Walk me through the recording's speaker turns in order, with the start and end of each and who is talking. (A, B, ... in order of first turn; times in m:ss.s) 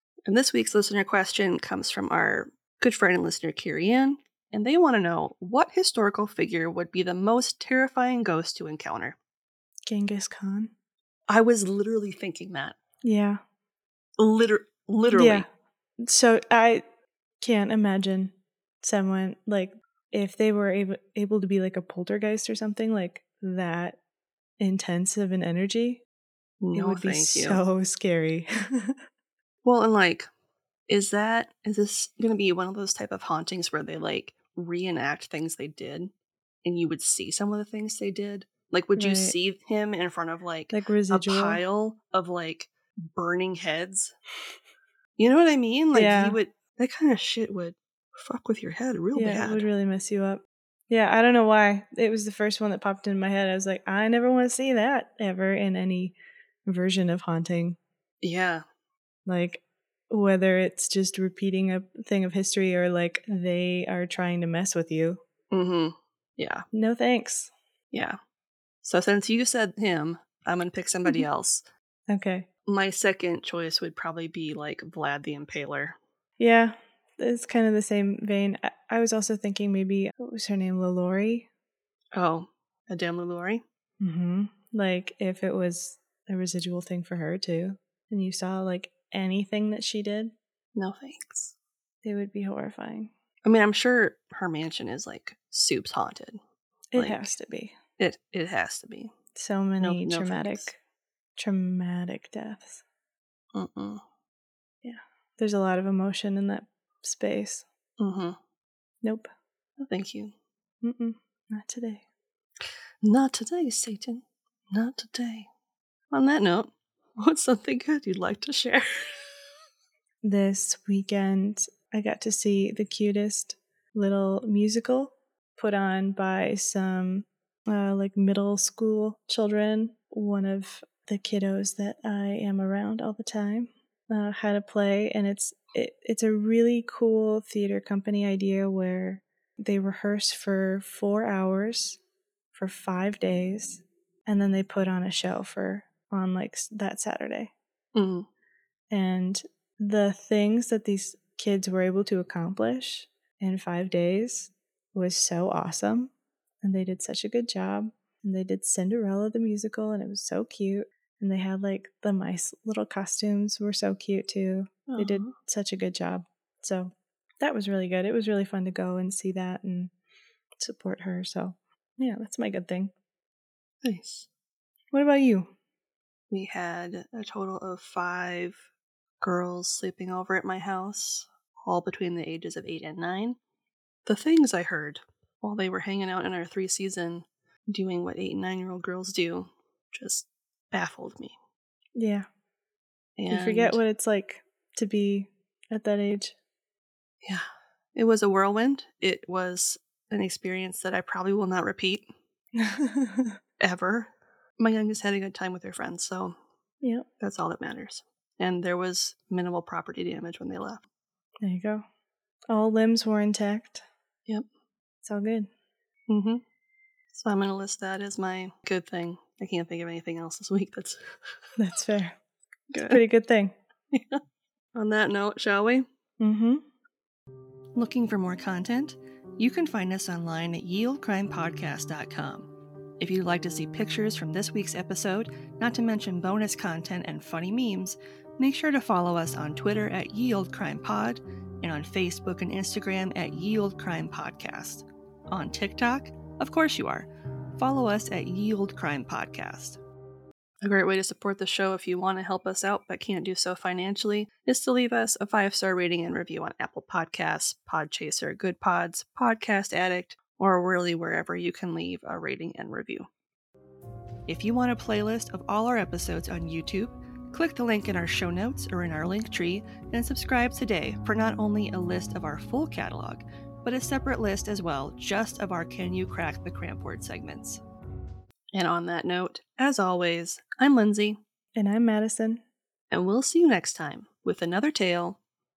0:00.3-0:09.2 A
0:09.9-0:10.7 B
0:11.3-0:12.8 A
0:13.0-0:13.4 B
0:14.2-0:15.5 A
0:15.1-0:15.5 B
0:16.0-0:16.8 B
0:17.4-0:24.0 B
0:24.6-0:26.0 B
0:26.6-0:27.6 A
0:26.8-0:29.0 B
0:29.6-0:30.3 A
0:30.9-0:36.1 A
0:36.6-0:44.2 A
0:39.0-0:39.4 B
0:40.7-0:41.6 B
0:45.2-0:49.7 A
0:45.9-0:46.4 B
0:49.1-0:56.2 B
0:56.7-0:57.8 B
0:58.2-0:58.6 A
0:59.3-1:05.2 B
1:05.5-1:06.7 A
1:06.7-1:07.5 B
1:08.8-1:11.6 A
1:12.1-1:12.5 B
1:12.7-1:16.0 A
1:16.4-1:21.5 B
1:22.1-1:23.6 A
1:24.0-1:30.3 B
1:30.8-1:31.5 A
1:32.0-1:33.1 B
1:33.4-1:36.4 A
1:36.9-1:37.7 B
1:37.0-1:37.3 A
1:38.0-1:39.1 A
1:39.4-1:40.8 B
1:39.8-1:40.7 A
1:41.4-1:42.8 B
1:43.5-1:44.0 A
1:44.8-1:47.6 B
1:48.0-1:48.4 A
1:49.0-1:49.3 B
1:49.8-1:50.3 A
1:50.8-1:52.0 B
1:53.0-1:55.5 A
1:56.1-1:59.2 A
2:00.2-2:22.0 B
2:22.6-2:27.5 B
2:28.0-2:28.3 A
2:28.9-2:36.1 B
2:36.6-2:49.9 B
2:44.9-2:45.3 A
2:50.6-2:52.9 B
2:53.8-2:54.3 A
2:54.9-2:55.5 B
2:56.3-2:58.6 A
2:59.2-3:03.4 A
3:04.1-3:11.4 A
3:12.0-3:12.3 B
3:13.2-3:13.8 A
3:13.3-3:16.4 B
3:17.2-3:22.1 A
3:22.6-3:23.4 B
3:23.6-3:26.4 A
3:27.2-3:30.8 A
3:31.4-3:31.8 B
3:32.5-3:33.8 B
3:35.0-3:35.5 B
3:36.1-3:36.4 A
3:37.1-3:41.1 A
3:41.6-3:42.2 B
3:42.7-3:43.0 A
3:42.8-3:43.5 B
3:43.9-3:44.2 A
3:44.7-3:45.9 A
3:46.2-3:46.6 B
3:47.8-3:52.5 A
3:53.0-4:09.8 A
4:10.6-4:23.1 A
4:24.3-4:37.6 A
4:38.5-4:41.2 A
4:41.6-4:42.4 B
4:42.9-4:45.2 A